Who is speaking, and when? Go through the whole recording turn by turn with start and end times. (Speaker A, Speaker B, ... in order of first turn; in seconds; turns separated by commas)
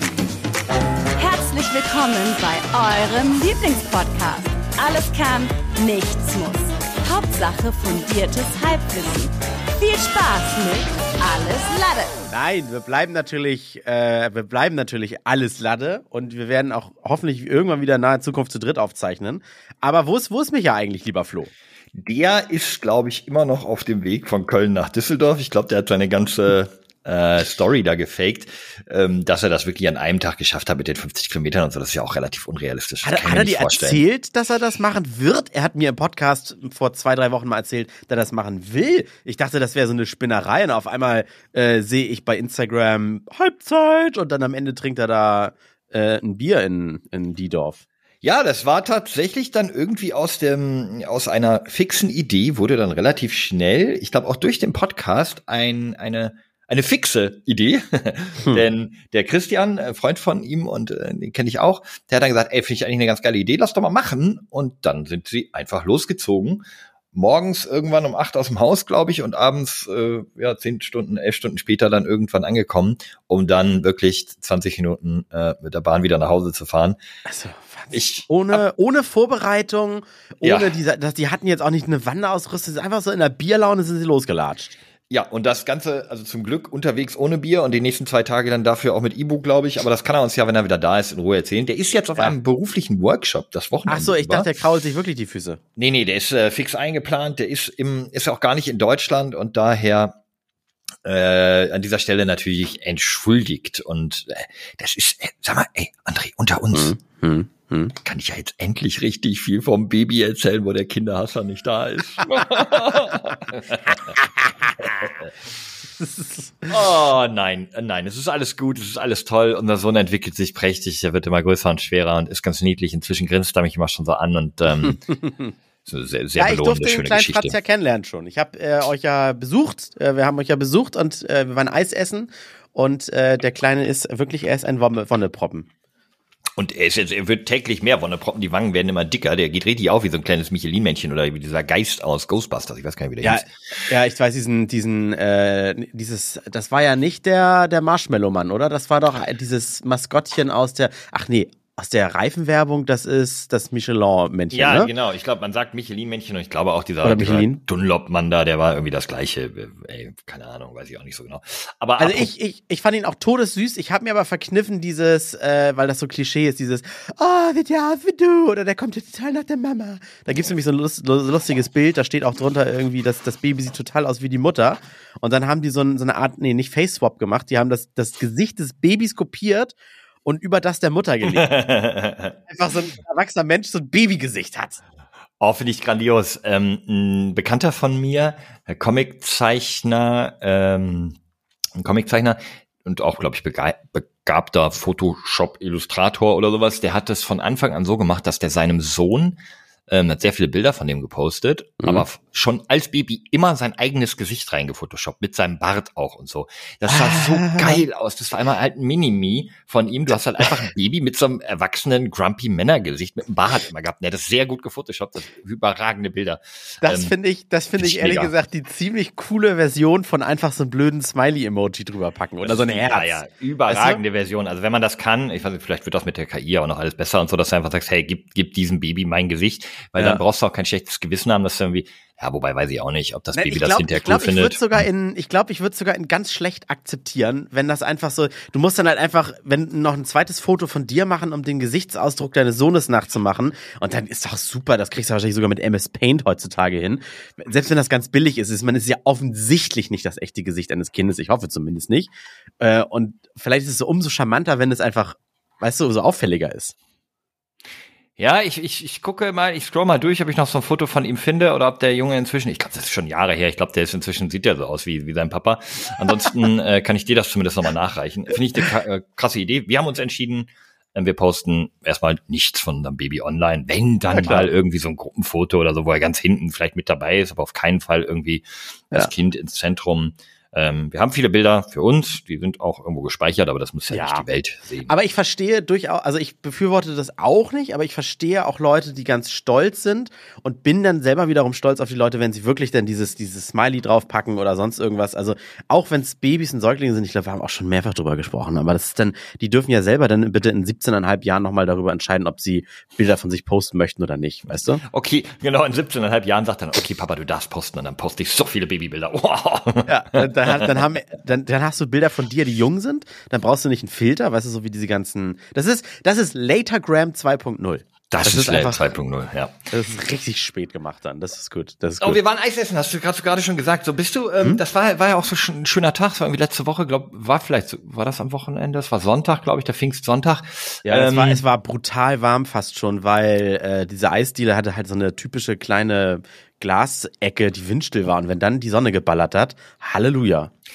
Speaker A: 1.2-12.3, Speaker B: 12.3-21.5, Speaker C: 21.9-34.0, Speaker B: 33.0-47.8, Speaker C: 48.2-77.0, Speaker B: 77.2-84.8, Speaker C: 77.9-78.6, Speaker C: 80.4-80.7, Speaker C: 85.1-94.5, Speaker B: 93.9-95.6, Speaker C: 95.8-100.2, Speaker C: 101.0-106.9, Speaker B: 106.7-108.0, Speaker C: 108.0-114.2, Speaker C: 114.8-115.3, Speaker B: 116.0-116.7, Speaker C: 116.7-125.0, Speaker B: 125.1-125.5, Speaker C: 125.8-127.5, Speaker B: 126.4-135.7, Speaker C: 136.6-143.5, Speaker B: 143.2-154.9, Speaker C: 154.5-162.3, Speaker B: 157.0-157.6, Speaker B: 162.0-181.5, Speaker C: 181.2-182.3, Speaker B: 182.5-184.8, Speaker C: 185.4-191.2, Speaker C: 191.7-217.1, Speaker B: 206.9-207.8, Speaker B: 216.8-224.0, Speaker C: 217.8-218.3, Speaker C: 222.4-234.6, Speaker B: 230.0-230.2, Speaker B: 233.3-256.7, Speaker C: 258.2-284.9, Speaker B: 274.1-274.5, Speaker B: 283.9-284.2, Speaker B: 284.9-304.8, Speaker C: 304.8-310.8, Speaker B: 309.9-318.9, Speaker C: 318.1-319.6, Speaker B: 319.7-322.2, Speaker C: 322.0-331.4, Speaker B: 330.8-340.5